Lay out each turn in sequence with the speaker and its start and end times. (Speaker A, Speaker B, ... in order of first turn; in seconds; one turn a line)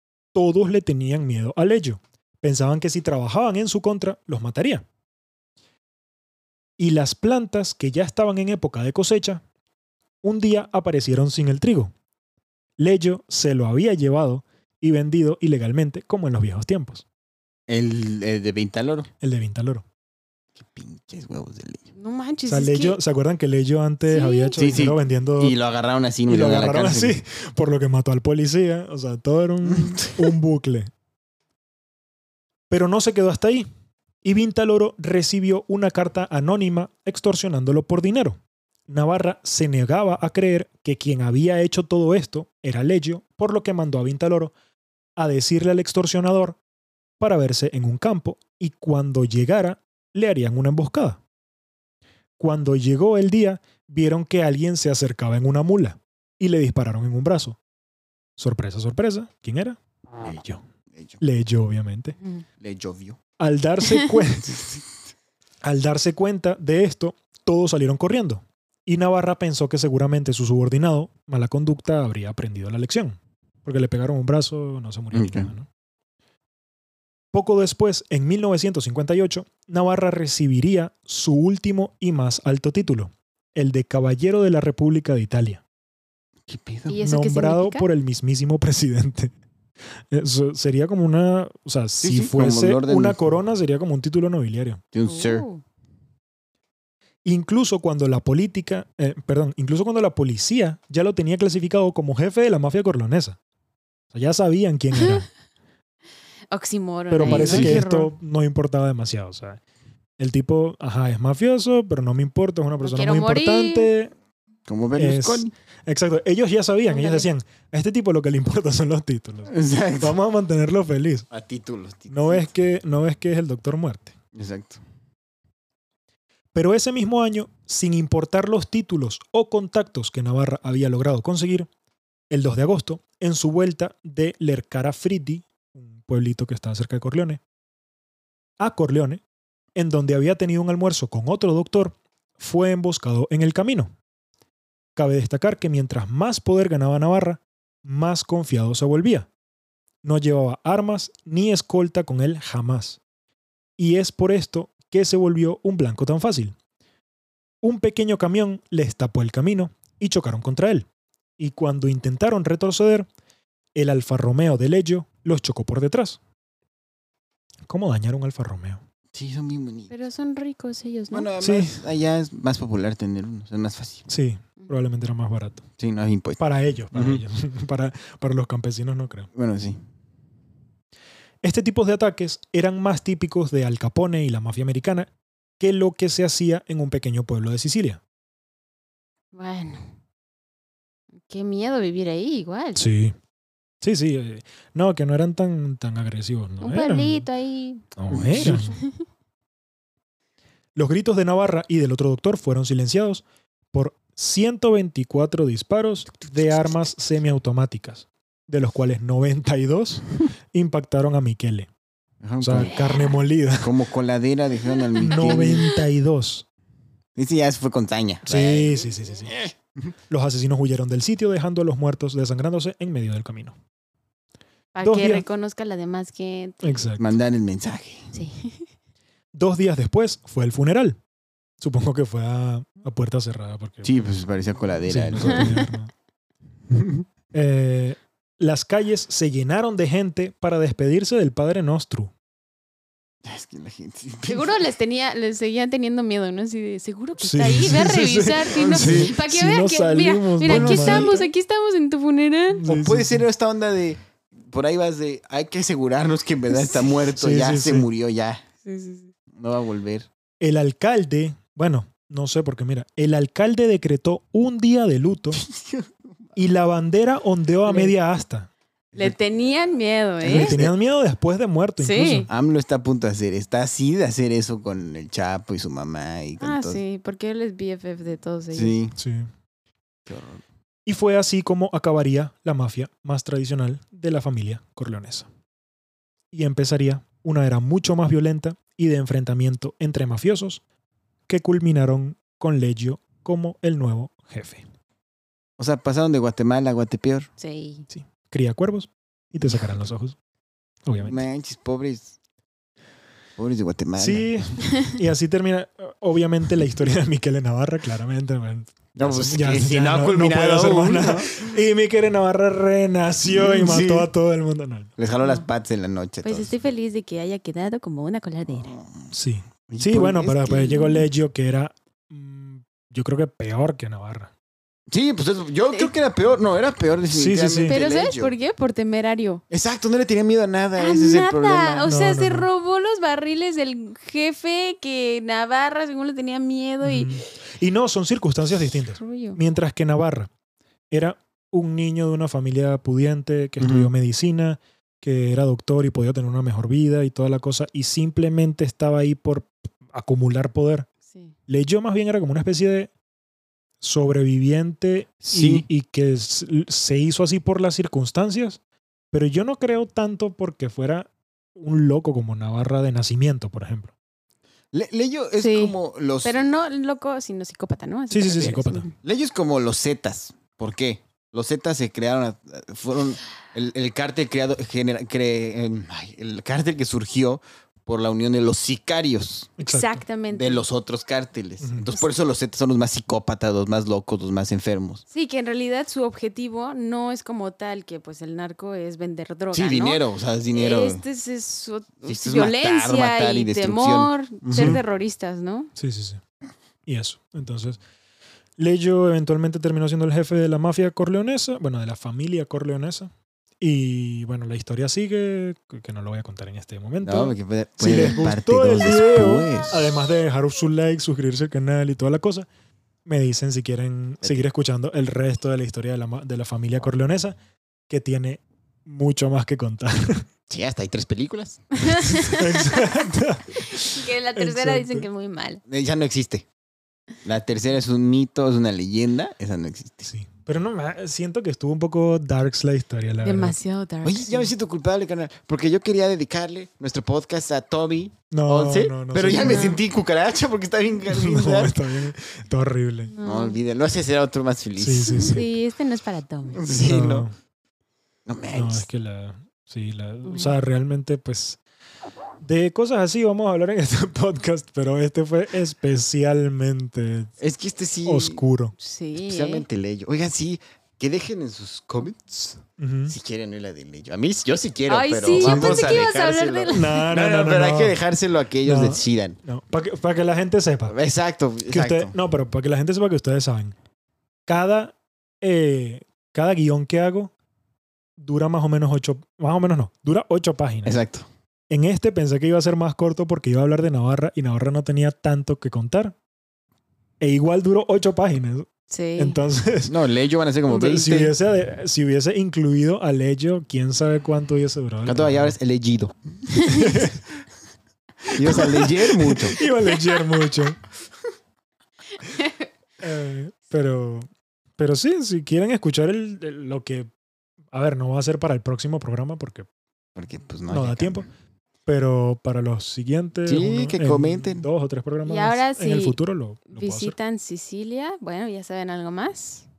Speaker A: 0.3-4.8
Speaker A: 6.8-9.4
Speaker A: 10.2-11.9
Speaker A: 12.8-17.0
Speaker B: 17.7-19.1
Speaker A: 19.2-19.8
Speaker B: 20.6-21.9
Speaker C: 22.0-23.0
Speaker A: 22.5-25.6
Speaker C: 24.1-24.6
Speaker B: 24.6-27.2
Speaker A: 26.3-30.9
Speaker B: 29.6-30.3
Speaker A: 32.7-33.7
Speaker A: 34.2-44.5
Speaker A: 45.2-46.6
Speaker A: 47.2-51.2
Speaker A: 52.4-57.6
Speaker A: 58.4-60.6
Speaker B: 60.9-61.2
Speaker A: 61.2-62.2
Speaker B: 62.6-63.2
Speaker A: 63.4-64.6
Speaker B: 64.5-64.8
Speaker A: 65.6-75.7
Speaker B: 75.1-75.5
Speaker A: 77.3-85.6
Speaker B: 86.5-87.0
Speaker C: 86.9-87.9
Speaker A: 87.0-89.3
Speaker A: 90.1-94.8
Speaker B: 92.0-93.2
Speaker B: 94.9-95.5
Speaker C: 95.1-95.6
Speaker A: 97.2-103.4
Speaker A: 104.1-105.3
Speaker C: 106.5-108.1
Speaker A: 107.1-109.6
Speaker B: 107.2-107.8
Speaker A: 110.2-114.1
Speaker C: 112.8-113.9
Speaker B: 114.7-115.5
Speaker A: 115.0-121.3
Speaker C: 116.9-117.3
Speaker B: 119.5-120.2
Speaker B: 121.3-122.5
Speaker A: 122.1-124.2
Speaker B: 124.3-124.8
Speaker A: 126.5-131.7
Speaker A: 132.3-137.4
Speaker A: 138.6-139.2
Speaker A: 139.8-143.9
Speaker A: 145.0-149.3
Speaker A: 150.0-153.0
Speaker A: 153.8-156.6
Speaker A: 157.6-160.9
Speaker A: 161.4-163.1
Speaker A: 163.8-166.2
Speaker A: 167.7-168.8
Speaker B: 169.1-169.9
Speaker C: 169.9-171.3
Speaker B: 171.1-174.1
Speaker A: 171.4-171.8
Speaker A: 174.1-175.7
Speaker B: 175.8-177.2
Speaker A: 176.4-179.3
Speaker B: 179.3-179.8
Speaker A: 181.4-188.0
Speaker C: 189.3-189.8
Speaker C: 191.3-192.8
Speaker A: 192.8-193.2
Speaker A: 193.8-197.3
Speaker C: 196.6-197.9
Speaker A: 197.9-198.8
Speaker B: 198.1-198.8
Speaker C: 198.4-198.8
Speaker A: 200.8-211.7
Speaker B: 212.2-212.8
Speaker A: 212.4-213.7
Speaker C: 212.6-213.2
Speaker B: 213.5-215.7
Speaker C: 215.0-215.6
Speaker A: 215.0-216.4
Speaker B: 217.2-219.9
Speaker A: 218.3-219.3
Speaker A: 220.1-223.6
Speaker C: 224.8-226.8
Speaker A: 224.8-225.2
Speaker A: 226.6-227.1
Speaker B: 227.0-228.1
Speaker C: 228.1-228.7
Speaker A: 229.3-231.0
Speaker A: 231.6-234.2
Speaker B: 233.8-235.7
Speaker A: 234.9-235.9
Speaker C: 235.3-235.7
Speaker B: 236.7-237.1
Speaker A: 237.3-242.1
Speaker B: 243.2-244.6
Speaker C: 244.3-252.6
Speaker A: 247.2-251.2
Speaker B: 248.6-249.2
Speaker B: 250.4-251.3
Speaker A: 252.5-253.2
Speaker B: 252.7-258.4
Speaker A: 257.1-257.9
Speaker C: 258.6-259.1
Speaker B: 259.3-260.1
Speaker A: 260.4-265.4
Speaker B: 265.5-265.9
Speaker A: 266.4-268.5
Speaker C: 267.7-267.9
Speaker C: 269.0-270.6
Speaker B: 270.2-270.7
Speaker A: 270.2-272.3
Speaker C: 271.8-272.3
Speaker B: 272.3-276.8
Speaker C: 276.4-278.8
Speaker B: 278.5-278.9
Speaker A: 279.0-279.3
Speaker B: 280.1-280.4
Speaker A: 280.9-285.3
Speaker A: 286.3-290.6
Speaker A: 291.3-294.6
Speaker B: 295.6-297.3
Speaker C: 297.4-297.9
Speaker A: 297.9-300.2
Speaker B: 299.4-299.9
Speaker A: 300.9-301.2
Speaker B: 301.0-302.1
Speaker B: 303.4-304.4
Speaker A: 304.0-314.9
Speaker B: 309.0-311.6
Speaker B: 313.3-314.1
Speaker B: 315.0-316.5
Speaker C: 316.2-318.8
Speaker B: 318.6-319.1
Speaker A: 319.1-324.3
Speaker B: 319.7-321.0
Speaker B: 324.9-328.3
Speaker A: 327.1-327.8
Speaker C: 327.7-329.4
Speaker B: 329.5-331.9
Speaker C: 330.8-337.1
Speaker A: 331.9-332.5
Speaker A: 336.8-340.3
Speaker C: 339.0-339.4
Speaker A: 340.9-350.9
Speaker B: 343.6-343.9
Speaker A: 351.5-352.9
Speaker A: 353.8-358.6
Speaker B: 355.3-355.7
Speaker A: 359.1-363.9
Speaker B: 364.7-366.4
Speaker C: 365.4-368.9
Speaker A: 368.1-368.9
Speaker B: 369.0-379.6
Speaker C: 379.6-380.6
Speaker A: 379.6-380.0
Speaker B: 380.3-385.0
Speaker A: 381.6-381.9
Speaker C: 385.1-395.7
Speaker B: 389.5-391.0
Speaker B: 392.0-394.8
Speaker A: 394.5-394.8
Speaker A: 395.8-396.2
Speaker A: 396.9-397.8
Speaker A: 398.6-412.5
Speaker B: 407.0-410.1
Speaker C: 407.9-408.2
Speaker A: 413.1-417.4
Speaker A: 417.9-420.2
Speaker B: 420.5-422.2
Speaker C: 421.8-422.9
Speaker A: 422.2-425.1
Speaker C: 423.6-425.6
Speaker B: 425.7-426.5
Speaker B: 427.2-430.1
Speaker A: 430.1-433.6
Speaker C: 433.2-434.5
Speaker B: 434.0-441.8
Speaker A: 438.3-439.8
Speaker C: 439.4-439.8
Speaker A: 441.1-443.1
Speaker C: 443.1-443.6
Speaker B: 443.2-445.4
Speaker A: 444.8-445.5
Speaker C: 445.1-446.6
Speaker B: 446.5-447.3
Speaker A: 446.7-447.3
Speaker B: 448.3-448.9
Speaker A: 448.5-451.6
Speaker C: 450.2-450.5
Speaker A: 452.4-457.3
Speaker B: 457.4-458.4
Speaker A: 458.1-458.8
Speaker C: 458.8-459.6
Speaker B: 459.1-469.4
Speaker A: 462.8-463.1
Speaker C: 464.9-467.1
Speaker A: 465.4-465.9
Speaker A: 466.7-468.0
Speaker A: 468.6-471.0
Speaker B: 470.9-472.1
Speaker A: 471.7-473.8
Speaker A: 474.5-477.3
Speaker A: 478.2-481.0
Speaker B: 480.9-481.3
Speaker A: 481.7-486.1
Speaker A: 487.2-489.9
Speaker C: 488.9-489.4
Speaker B: 489.9-491.4
Speaker A: 490.7-495.6
Speaker B: 495.1-496.2
Speaker C: 496.5-497.1
Speaker A: 496.7-497.2
Speaker A: 498.3-500.8
Speaker B: 498.3-499.6
Speaker C: 502.2-502.6
Speaker A: 503.0-507.1
Speaker A: 507.7-509.7
Speaker B: 510.1-511.3
Speaker A: 510.7-511.3
Speaker A: 511.9-517.1
Speaker B: 513.5-514.7
Speaker C: 515.2-519.6